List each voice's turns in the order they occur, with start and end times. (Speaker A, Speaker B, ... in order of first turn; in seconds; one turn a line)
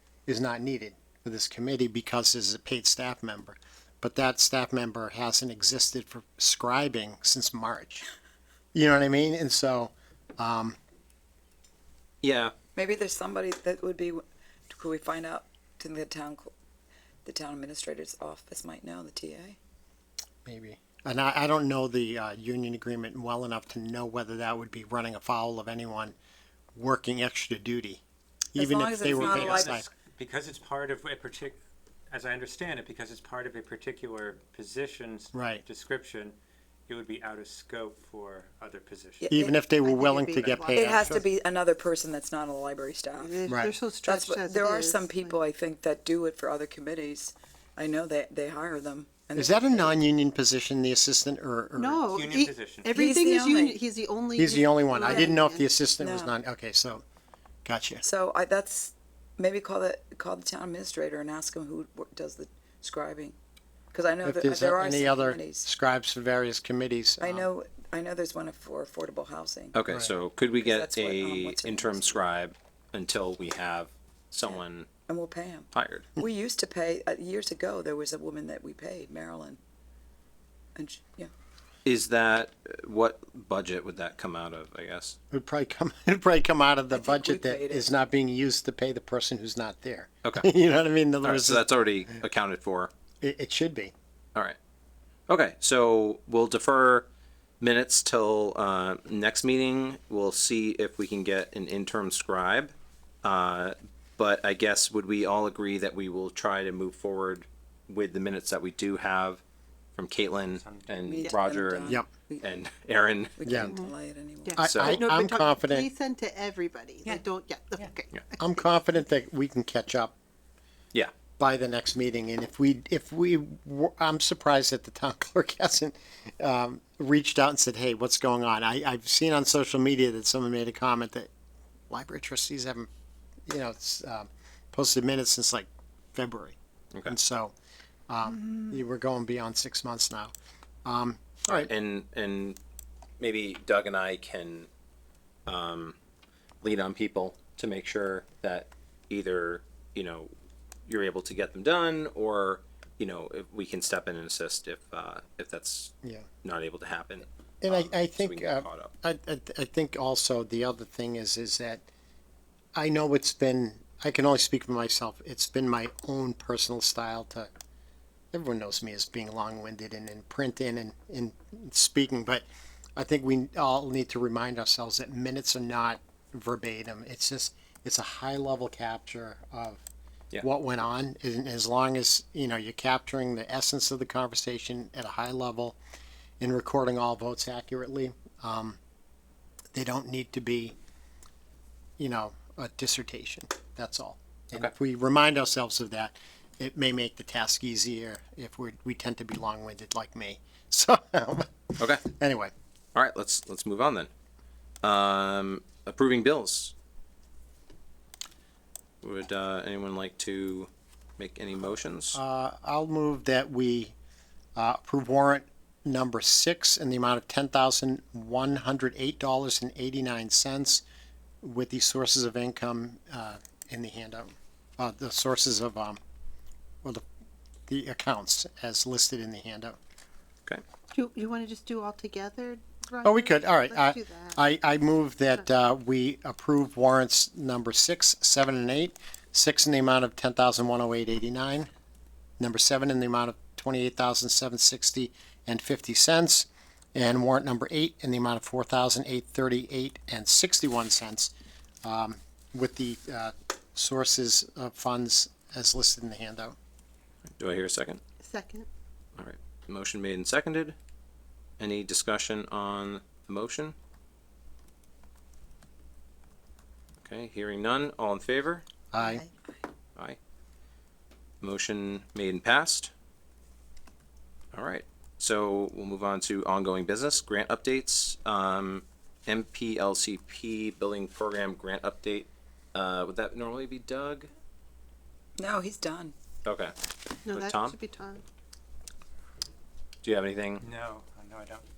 Speaker A: 0.3-8.1
Speaker A: 8.7-10.8
Speaker B: 12.2-12.5
Speaker C: 12.8-16.5
Speaker C: 17.3-19.6
Speaker A: 20.5-26.1
Speaker A: 26.8-28.0
Speaker A: 28.6-29.9
Speaker C: 28.6-29.8
Speaker D: 29.1-31.6
Speaker D: 32.1-36.4
Speaker A: 35.3-35.6
Speaker D: 36.9-39.3
Speaker C: 39.2-39.5
Speaker A: 39.3-41.2
Speaker E: 39.8-41.0
Speaker C: 40.7-43.4
Speaker E: 43.2-45.4
Speaker A: 43.5-43.8
Speaker C: 44.0-50.0
Speaker A: 49.4-52.2
Speaker E: 51.8-55.4
Speaker D: 52.1-53.0
Speaker C: 52.9-53.8
Speaker A: 54.4-57.0
Speaker C: 55.0-56.4
Speaker A: 57.6-58.0
Speaker C: 58.0-63.4
Speaker C: 63.9-65.7
Speaker A: 64.2-67.5
Speaker C: 67.2-69.8
Speaker B: 69.7-74.9
Speaker A: 69.9-70.1
Speaker C: 70.6-72.2
Speaker C: 75.1-79.6
Speaker B: 75.7-76.1
Speaker C: 80.8-81.3
Speaker B: 81.8-85.2
Speaker A: 85.3-91.7
Speaker C: 86.9-87.9
Speaker B: 91.2-92.9
Speaker A: 93.2-93.9
Speaker B: 95.3-97.1
Speaker B: 97.6-109.4
Speaker B: 110.0-113.8
Speaker D: 110.6-110.9
Speaker C: 111.0-112.5
Speaker C: 113.4-114.6
Speaker A: 113.5-113.7
Speaker E: 114.4-118.5
Speaker B: 114.6-115.0
Speaker A: 114.6-115.9
Speaker A: 118.4-120.1
Speaker A: 121.4-131.3
Speaker A: 131.9-132.9
Speaker A: 133.5-137.5
Speaker A: 138.1-140.3
Speaker A: 140.8-141.7
Speaker B: 141.5-142.6
Speaker B: 143.2-144.7
Speaker B: 145.5-146.0
Speaker B: 146.6-150.3
Speaker B: 150.9-158.9
Speaker A: 157.6-161.9
Speaker A: 162.8-167.5
Speaker A: 168.3-172.4
Speaker A: 173.0-179.8
Speaker A: 180.4-185.8
Speaker A: 186.4-188.8
Speaker A: 189.7-190.8
Speaker A: 192.0-202.5
Speaker B: 202.9-204.1
Speaker B: 204.8-206.7
Speaker B: 209.0-212.2
Speaker A: 212.1-213.9
Speaker A: 214.6-220.8
Speaker A: 221.4-226.0
Speaker A: 227.7-229.8
Speaker E: 230.9-234.4
Speaker A: 233.0-241.7
Speaker A: 242.4-251.3
Speaker A: 251.8-256.6
Speaker B: 257.4-258.0
Speaker E: 258.2-258.7
Speaker B: 259.2-260.8
Speaker B: 261.6-263.7
Speaker B: 267.0-268.6
Speaker A: 268.9-269.2
Speaker E: 269.0-269.3
Speaker B: 271.4-272.9
Speaker B: 274.5-284.3
Speaker C: 285.4-286.1
Speaker B: 286.4-286.8
Speaker E: 287.3-288.2
Speaker B: 287.3-287.8
Speaker B: 290.0-290.6
Speaker D: 290.6-291.6